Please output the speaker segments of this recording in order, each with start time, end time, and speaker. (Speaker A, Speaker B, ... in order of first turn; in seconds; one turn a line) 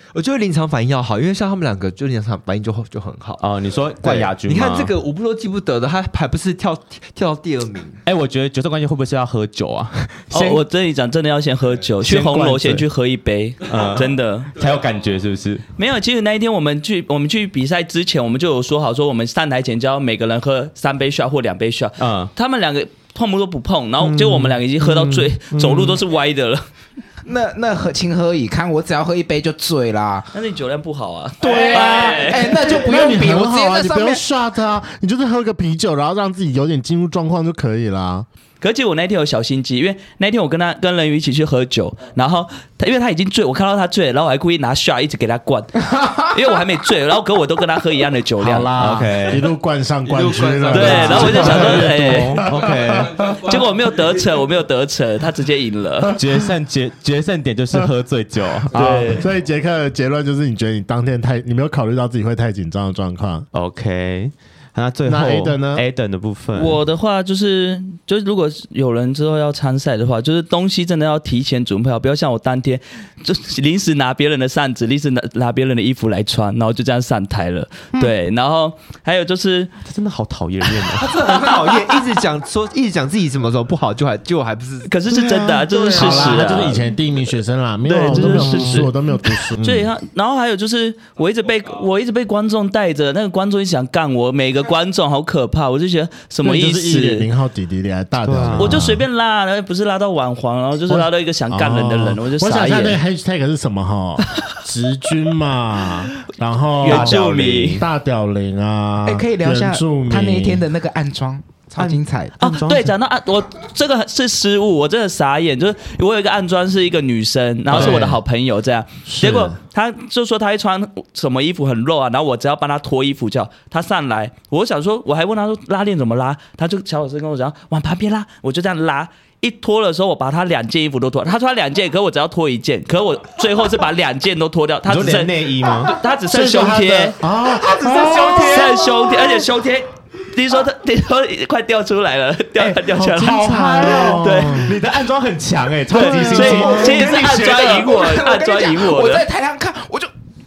Speaker A: 0.1-3.5
Speaker B: 3.4-4.9
Speaker A: 4.0-8.0
Speaker B: 8.0-10.6
Speaker C: 10.3-14.5
Speaker B: 12.0-12.8
Speaker A: 13.6-13.9
Speaker B: 13.7-15.6
Speaker A: 14.6-14.9
Speaker C: 15.8-26.6
Speaker B: 22.0-22.3
Speaker D: 24.0-26.0
Speaker E: 27.2-30.3
Speaker C: 30.3-32.7
Speaker E: 31.4-34.2
Speaker D: 32.7-38.3
Speaker C: 38.6-48.7
Speaker D: 48.4-53.4
Speaker B: 48.8-49.5
Speaker A: 50.0-51.9
Speaker C: 50.7-52.5
Speaker B: 50.9-53.2
Speaker C: 53.4-56.1
Speaker D: 56.1-56.5
Speaker B: 56.1-59.0
Speaker D: 58.7-63.5
Speaker C: 58.7-59.3
Speaker B: 63.5-66.8
Speaker D: 65.1-65.8
Speaker C: 66.5-79.7
Speaker B: 79.8-81.4
Speaker A: 80.8-84.9
Speaker C: 84.8-86.8
Speaker B: 85.1-86.8
Speaker D: 85.8-89.9
Speaker C: 87.8-97.3
Speaker B: 88.1-88.8
Speaker D: 96.4-99.0
Speaker B: 98.2-98.8
Speaker C: 98.6-103.0
Speaker D: 100.9-107.2
Speaker C: 106.8-107.8
Speaker B: 106.8-107.8
Speaker D: 107.8-110.6
Speaker E: 109.0-112.3
Speaker B: 111.8-112.9
Speaker C: 112.4-137.2
Speaker B: 117.7-118.2
Speaker D: 117.7-118.2
Speaker D: 119.0-119.5
Speaker B: 134.9-135.9
Speaker D: 136.3-138.8
Speaker C: 137.8-144.7
Speaker B: 137.8-138.8
Speaker B: 142.6-147.9
Speaker D: 143.0-144.8
Speaker D: 145.9-147.0
Speaker C: 145.9-149.3
Speaker E: 146.6-150.1